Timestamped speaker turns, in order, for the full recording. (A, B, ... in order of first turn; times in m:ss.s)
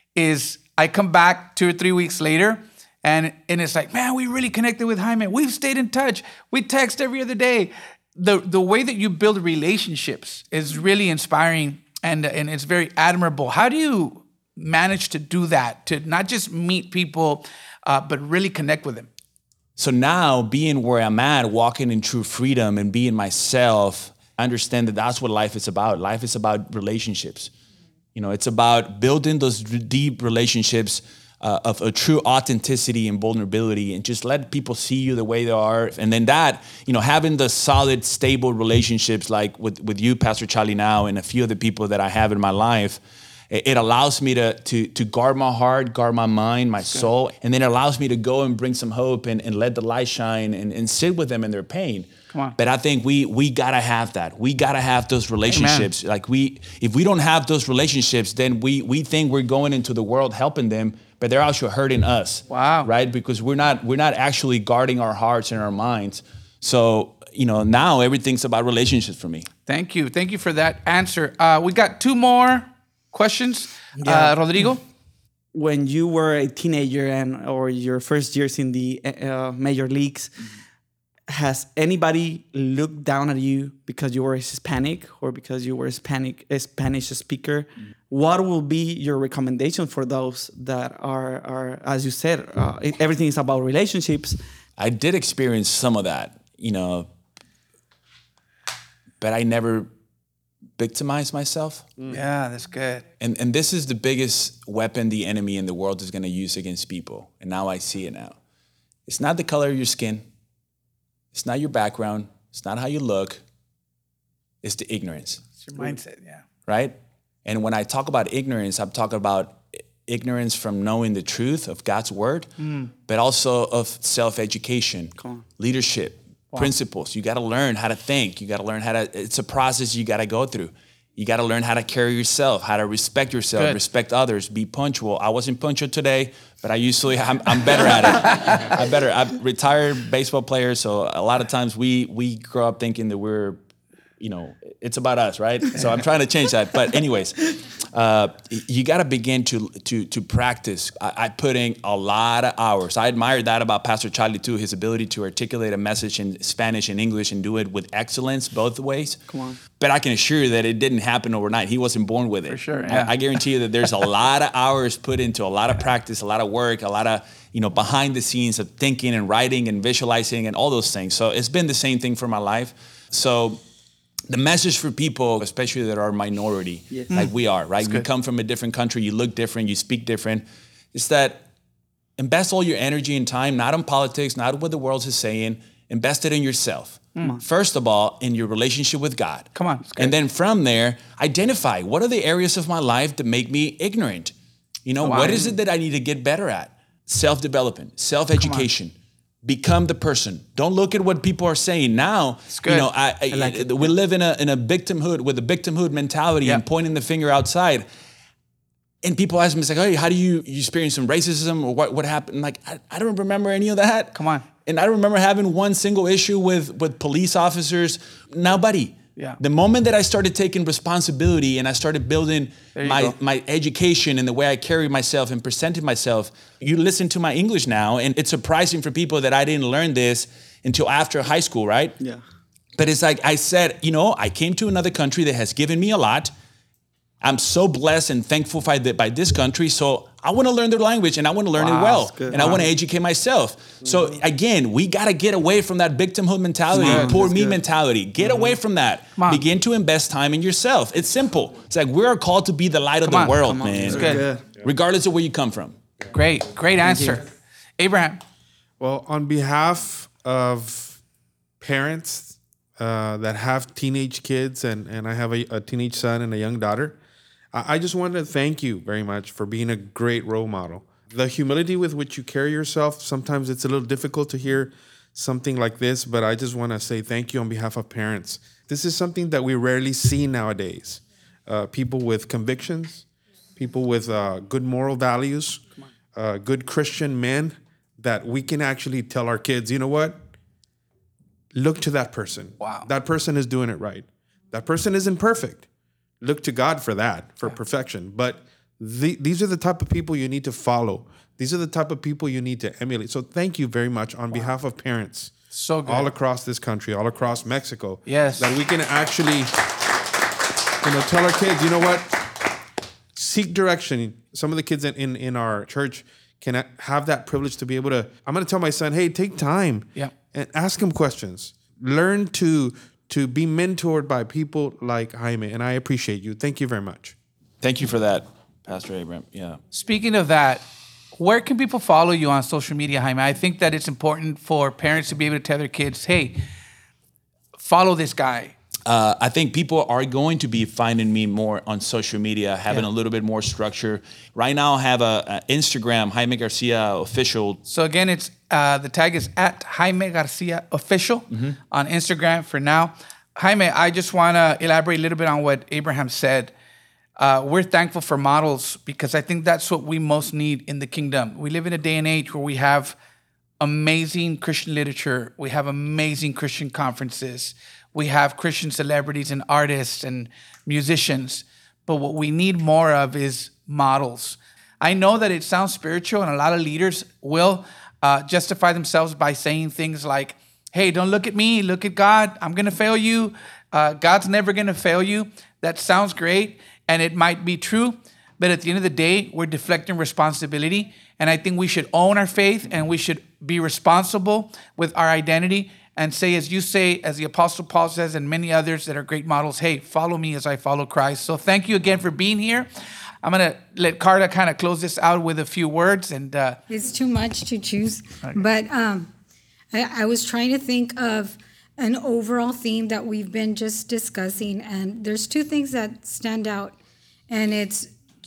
0:00.2-0:19.1 A
0:19.8-0:27.5 B
0:28.1-1:09.5 B
0:55.5-0:55.9 A
1:02.5-1:02.9 A
1:09.6-1:14.8 A
1:14.0-1:14.4 C
1:15.5-1:20.3 C
1:21.3-1:34.4 C
1:34.8-1:37.1 B
1:39.2-1:39.9 B
1:40.8-1:41.9 B
1:42.1-1:43.1 A
1:43.2-1:48.4 B
1:49.1-1:50.2 B
1:51.3-1:53.4 B
1:54.6-1:55.4 B
1:55.6-1:56.4 A
1:56.7-2:02.5 B
2:02.6-2:02.9 A
2:03.1-2:23.6 B
2:24.2-2:53.6 B
2:39.3-2:39.6 C
2:42.5-2:43.1 A
2:54.3-3:01.4 B
2:57.1-2:58.1 A
3:02.2-3:14.4 B
3:09.5-3:10.1 A
3:14.8-3:27.8 B
3:15.0-3:15.5 A
3:18.4-3:18.7 A
3:22.5-3:22.9 A
3:29.0-3:52.0 B
3:34.1-3:34.5 A
3:42.8-3:43.1 A
3:52.8-3:56.3 B
3:57.2-4:15.8 B
4:01.6-4:02.6 C
4:02.3-4:02.6 A
4:06.7-4:07.2 A
4:06.7-4:07.6 C
4:09.2-4:09.4 A
4:13.0-4:14.2 A
4:13.3-4:14.5 C
4:16.1-4:18.2 A
4:16.8-4:17.2 C
4:18.8-4:21.0 D
4:21.6-4:27.0 D
4:27.5-4:45.6 D
4:46.1-4:50.2 D
4:51.5-4:55.6 D
4:52.6-4:52.9 A
4:56.2-5:05.3 D
5:05.5-5:06.1 A
5:05.8-5:09.6 D
5:08.1-5:08.6 A
5:10.8-5:12.3 D
5:13.1-5:27.1 D
5:27.6-5:29.6 B
5:29.7-5:30.6 A
5:31.2-5:36.4 A
5:37.6-5:38.5 A
5:38.8-5:47.6 B
5:47.7-5:56.5 A
5:51.3-5:51.6 B
5:57.2-6:03.0 A
6:03.6-6:42.7 A
6:43.2-6:46.6 A
6:46.7-6:49.1 E
6:49.7-6:56.8 E
6:57.3-6:57.9 E